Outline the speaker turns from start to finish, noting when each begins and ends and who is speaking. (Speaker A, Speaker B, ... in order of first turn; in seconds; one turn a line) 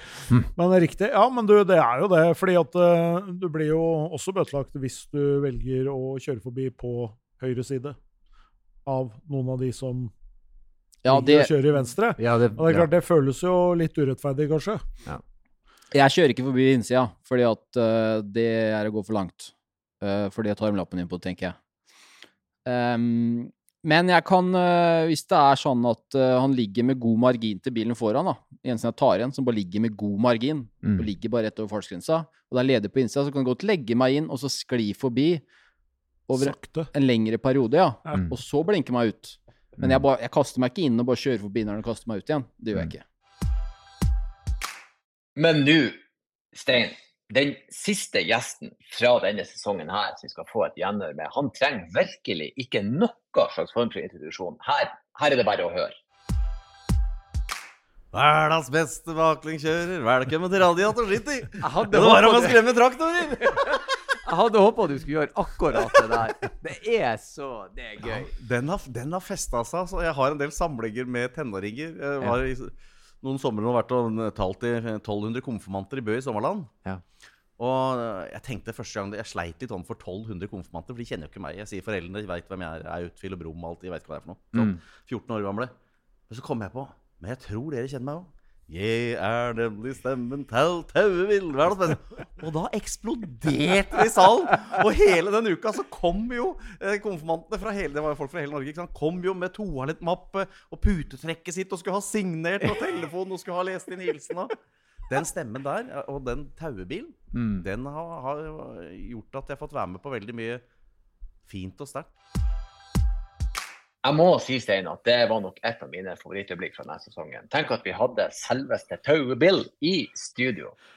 Speaker A: 0.6-8.0
Speaker A: 8.8-10.1
Speaker B: 11.0-11.5
Speaker A: 11.1-14.8
Speaker C: 12.2-12.9
Speaker B: 15.9-21.6
Speaker B: 22.6-35.4
Speaker C: 30.8-31.1
Speaker B: 36.3-43.0
Speaker A: 36.4-36.9
Speaker C: 38.1-38.4
Speaker C: 39.8-40.0
Speaker D: 45.4-46.0
Speaker D: 46.5-55.9
Speaker E: 58.1-63.7
Speaker C: 61.6-62.6
Speaker C: 63.5-68.3
Speaker E: 68.0-76.7
Speaker E: 77.6-85.7
Speaker C: 84.5-84.8
Speaker E: 86.3-104.5
Speaker E: 105.1-110.6
Speaker C: 107.3-107.6
Speaker E: 111.5-112.1
Speaker D: 114.0-120.7